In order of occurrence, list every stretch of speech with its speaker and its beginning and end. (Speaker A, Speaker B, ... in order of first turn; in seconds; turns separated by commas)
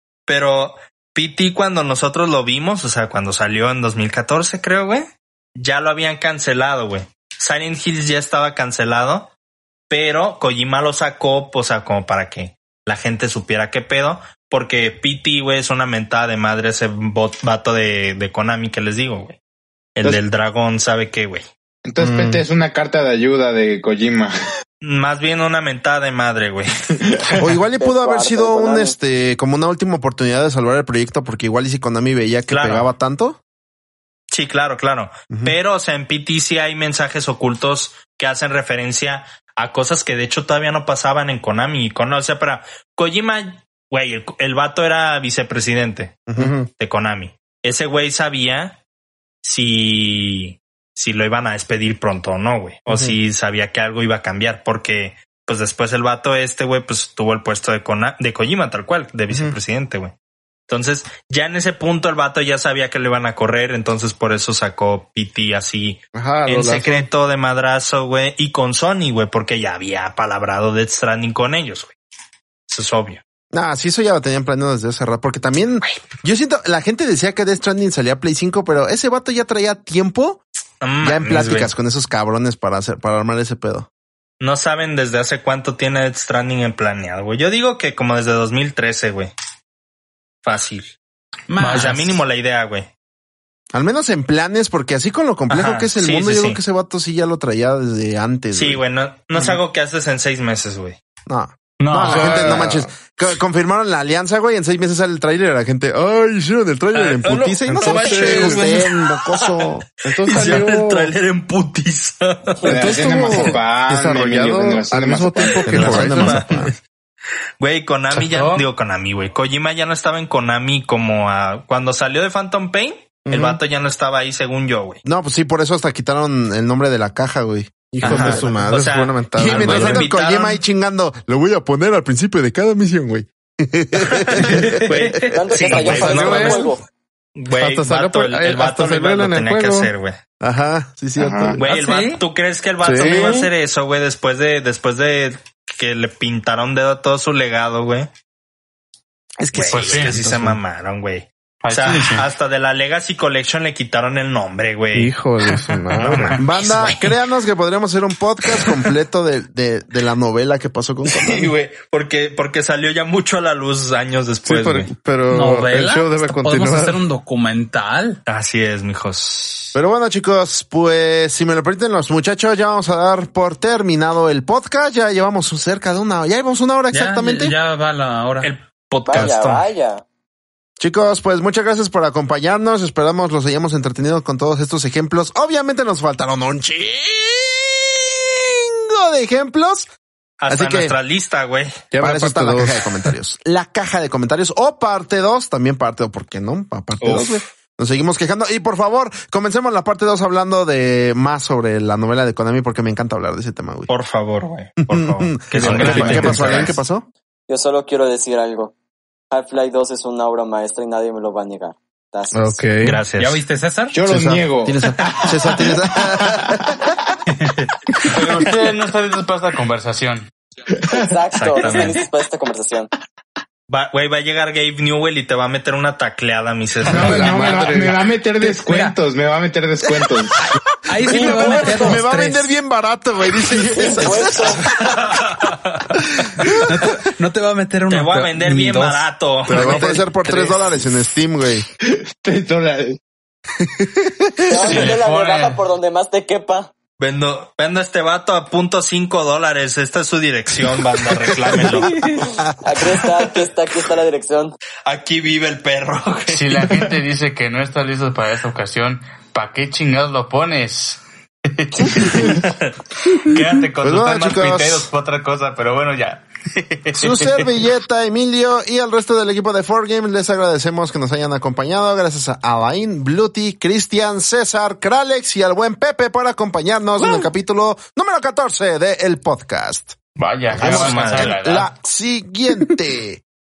Speaker A: 0.3-9.3, Speaker A: 9.9-19.4, Speaker A: 20.0-21.5, Speaker B: 21.9-24.4, Speaker C: 22.0-22.4, Speaker A: 24.8-26.8, Speaker C: 27.4-33.4, Speaker D: 27.8-28.9, Speaker A: 32.5-32.9, Speaker A: 34.3-48.8, Speaker C: 46.3-46.6, Speaker A: 49.4-60.1, Speaker C: 52.9-53.1, Speaker C: 59.3-59.6, Speaker A: 60.7-72.0, Speaker E: 66.2-67.1, Speaker A: 72.7-73.2, Speaker C: 73.5-80.4, Speaker A: 80.8-81.7, Speaker C: 81.0-83.9, Speaker A: 84.4-89.3, Speaker A: 90.4-91.0, Speaker F: 91.5-92.2, Speaker A: 91.6-92.9, Speaker C: 93.7-98.8, Speaker A: 95.5-96.6, Speaker A: 98.5-101.0, Speaker C: 101.3-110.6, Speaker G: 101.8-102.7, Speaker E: 102.0-102.9, Speaker A: 106.9-109.7, Speaker E: 107.7-108.7, Speaker E: 110.0-111.1, Speaker A: 110.2-112.7, Speaker B: 112.7-115.8, Speaker C: 112.7-113.6, Speaker E: 112.8-116.7, Speaker A: 115.4-116.7, Speaker C: 115.7-116.7, Speaker A: 117.6-125.0, Speaker G: 118.1-118.7, Speaker C: 123.3-123.6, Speaker C: 125.0-128.6, Speaker E: 127.9-130.1, Speaker A: 128.0-130.6, Speaker C: 129.4-135.2, Speaker A: 134.2-136.8, Speaker F: 134.4-136.0, Speaker D: 135.3-136.8, Speaker E: 135.9-136.7, Speaker A: 137.4-140.2, Speaker E: 137.5-139.9, Speaker C: 140.4-141.6, Speaker B: 141.2-141.6, Speaker A: 141.6-148.1, Speaker F: 141.6-142.2, Speaker E: 142.8-143.4, Speaker C: 149.4-150.6, Speaker A: 149.5-155.1, Speaker G: 149.7-150.2, Speaker G: 151.6-152.3, Speaker E: 154.9-156.4, Speaker G: 155.5-156.4, Speaker A: 155.9-157.2, Speaker C: 156.4-161.5, Speaker A: 161.1-164.9, Speaker E: 164.5-167.0, Speaker F: 165.3-168.2, Speaker A: 168.3-169.8, Speaker C: 169.8-177.6, Speaker F: 176.9-178.5, Speaker A: 178.4-179.7, Speaker D: 179.1-180.0, Speaker C: 180.8-189.9, Speaker A: 190.4-191.8, Speaker C: 190.5-190.9, Speaker E: 191.9-192.8, Speaker C: 192.0-203.9, Speaker A: 197.0-197.4, Speaker A: 203.9-206.8, Speaker C: 204.9-207.1, Speaker F: 205.5-206.7, Speaker E: 205.9-206.5, Speaker D: 207.5-208.8, Speaker D: 209.3-212.6, Speaker E: 212.3-213.0, Speaker A: 212.8-213.4, Speaker F: 213.1-214.0, Speaker B: 213.9-216.6, Speaker C: 214.1-216.8, Speaker F: 217.3-217.7, Speaker G: 218.1-220.3, Speaker B: 220.7-221.2, Speaker D: 220.9-222.9, Speaker A: 221.3-222.0, Speaker A: 223.7-227.3, Speaker B: 226.8-230.4, Speaker E: 226.9-228.1, Speaker F: 228.4-229.0, Speaker F: 230.9-232.6, Speaker C: 231.0-234.6, Speaker D: 231.0-232.0, Speaker D: 233.7-234.7, Speaker F: 236.4-240.6, Speaker A: 237.9-239.9, Speaker E: 239.5-239.8, Speaker C: 239.5-241.7, Speaker B: 241.8-243.0, Speaker C: 243.6-244.9, Speaker D: 244.5-246.7, Speaker G: 244.6-245.6, Speaker A: 247.0-252.0, Speaker F: 251.9-252.2, Speaker D: 252.2-254.6, Speaker A: 254.8-256.9, Speaker G: 256.3-262.5, Speaker A: 262.3-262.6, Speaker G: 263.1-267.5, Speaker C: 263.8-264.9, Speaker C: 266.9-280.0, Speaker G: 280.2-281.7, Speaker C: 280.5-283.2, Speaker A: 280.6-281.4